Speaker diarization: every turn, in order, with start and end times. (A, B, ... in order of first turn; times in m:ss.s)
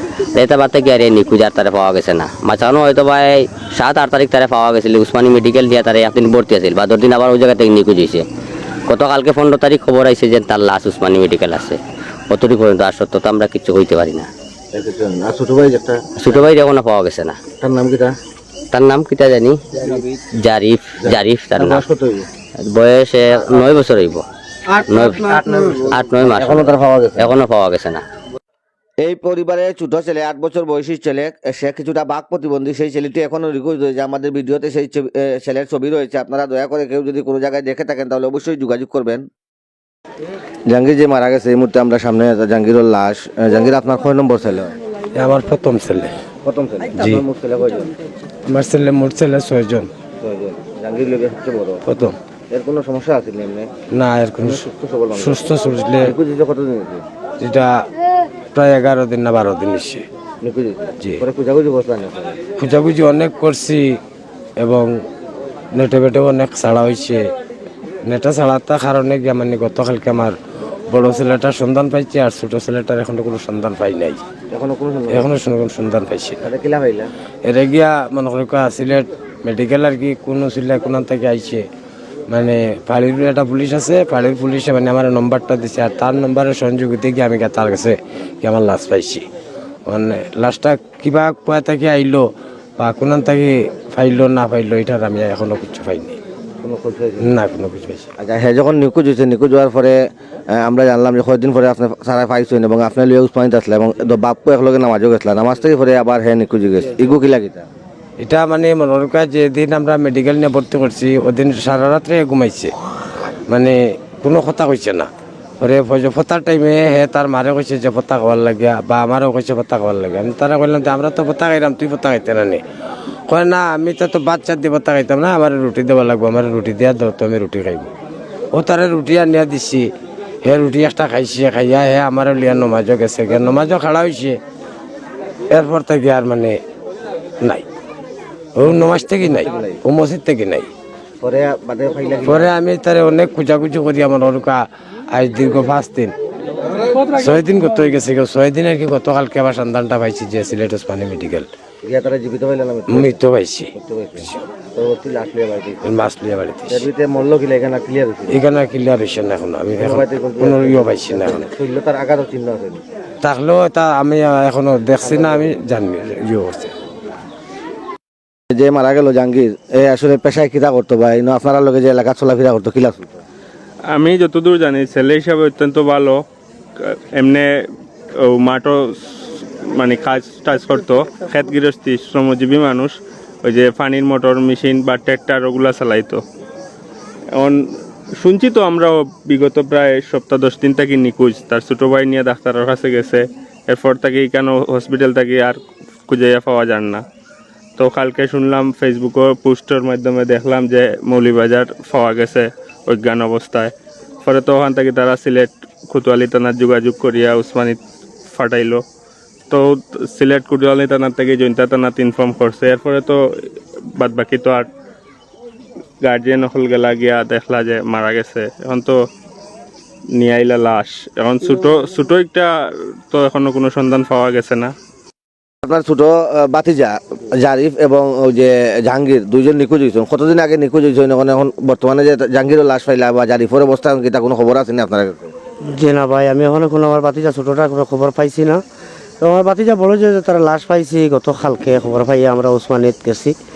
0:00.3-0:08.2 A
0:08.9-0:14.3 A
0:14.7-0:16.6 B
0:16.2-0:17.4 A
0:17.6-0:18.1 B
0:18.7-0:19.6 A
0:19.7-0:20.2 B
0:20.4-0:21.8 A
0:21.0-0:22.3 B
0:22.6-0:24.2 A
0:23.3-0:23.8 B
0:24.9-0:28.0 A
0:24.9-0:27.3 B
0:29.0-0:39.3 B
0:40.7-0:44.7 B
0:45.1-0:46.1 C
0:46.4-0:47.9 B
0:46.9-0:47.2 C
0:48.5-0:49.9 C
0:50.2-0:51.8 B
0:51.8-0:52.2 C
0:52.5-0:53.7 B
0:53.9-0:56.1 C
0:54.4-0:55.4 B
0:56.0-0:57.0 B
0:57.4-0:57.8 C
0:58.5-1:00.0 C
1:00.4-1:02.4 B
1:02.6-1:04.0 C
1:04.6-1:04.9 C
1:05.7-1:07.2 C
1:08.0-1:10.4 C
1:10.9-1:14.2 C
1:14.5-1:15.3 B
1:15.1-1:16.4 C
1:16.4-1:17.1 B
1:17.4-1:21.6 C
1:22.3-1:29.2 C
1:29.9-1:32.3 C
1:32.8-1:36.2 C
1:36.6-1:37.3 B
1:37.2-1:38.1 C
1:38.2-1:40.0 B
1:40.5-1:47.7 B
1:48.2-1:52.7 C
1:53.5-1:55.1 C
1:55.6-2:02.6 C
2:03.3-2:07.9 C
2:08.5-2:09.9 C
2:10.4-2:14.4 C
2:15.5-2:16.6 C
2:17.4-2:17.7 C
2:18.6-2:20.7 C
2:19.4-2:19.7 B
2:21.2-2:22.5 B
2:22.2-2:26.1 C
2:26.9-2:31.5 C
2:31.8-2:33.1 B
2:32.9-2:34.4 C
2:33.8-2:35.8 B
2:35.8-2:36.9 C
2:36.7-2:38.4 B
2:38.3-2:41.5 C
2:39.8-2:42.8 B
2:43.2-2:46.7 C
2:48.5-2:53.2 B
2:53.9-2:56.2 D
2:56.8-2:57.5 D
2:58.4-3:06.2 D
3:08.2-3:17.0 D
3:17.8-3:23.7 D
3:24.2-3:27.8 D
3:28.3-3:28.8 D
3:29.5-3:33.2 D
3:34.0-3:34.6 D
3:36.0-3:39.0 D
3:40.2-3:42.5 D
3:43.1-3:44.7 D
3:45.6-3:55.3 B
3:55.7-3:58.6 E
3:59.2-4:03.3 E